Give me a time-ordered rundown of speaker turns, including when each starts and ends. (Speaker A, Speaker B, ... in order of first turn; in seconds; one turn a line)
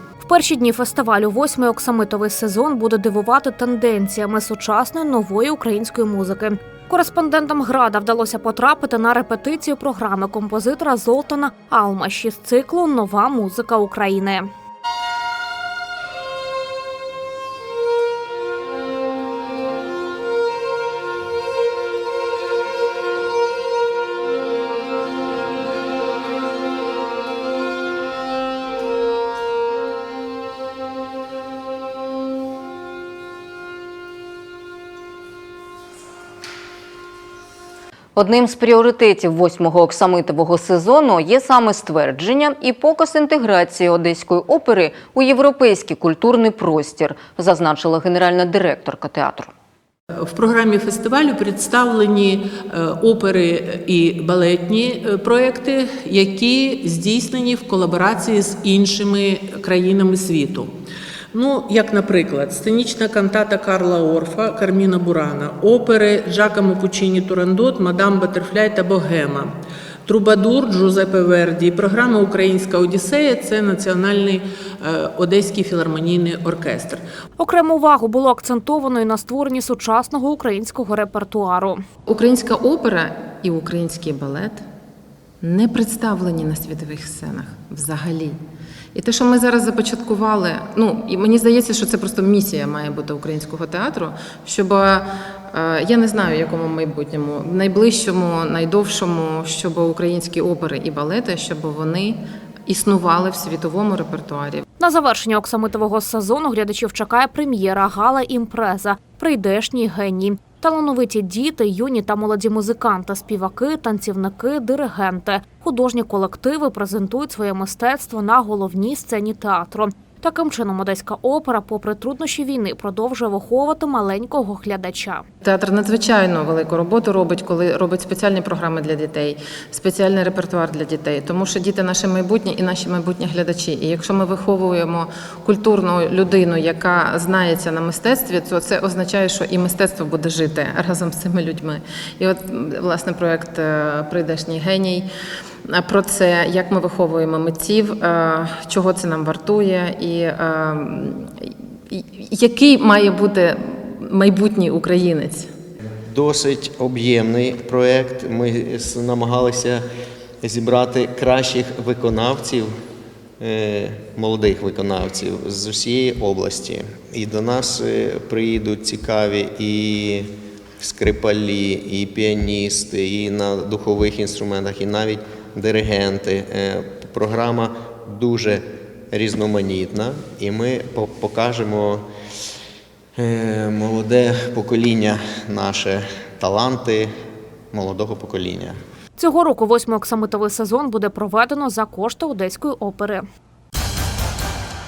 Speaker A: 0.2-14.5
Speaker B: 38.1-49.5
Speaker C: 50.1-60.7
Speaker C: 61.3-69.5
Speaker C: 70.0-77.0
Speaker A: 77.4-81.8
Speaker D: 82.1-84.6
Speaker D: 85.4-88.4
Speaker D: 88.9-104.6
Speaker A: 104.8-125.2
Speaker D: 125.4-145.1
Speaker D: 145.7-155.5
Speaker E: 155.9-159.8
Speaker E: 160.4-162.8
Speaker E: 163.4-182.1
Speaker E: 183.2-187.2
Speaker E: 187.7-188.8
Speaker A: 189.2-193.2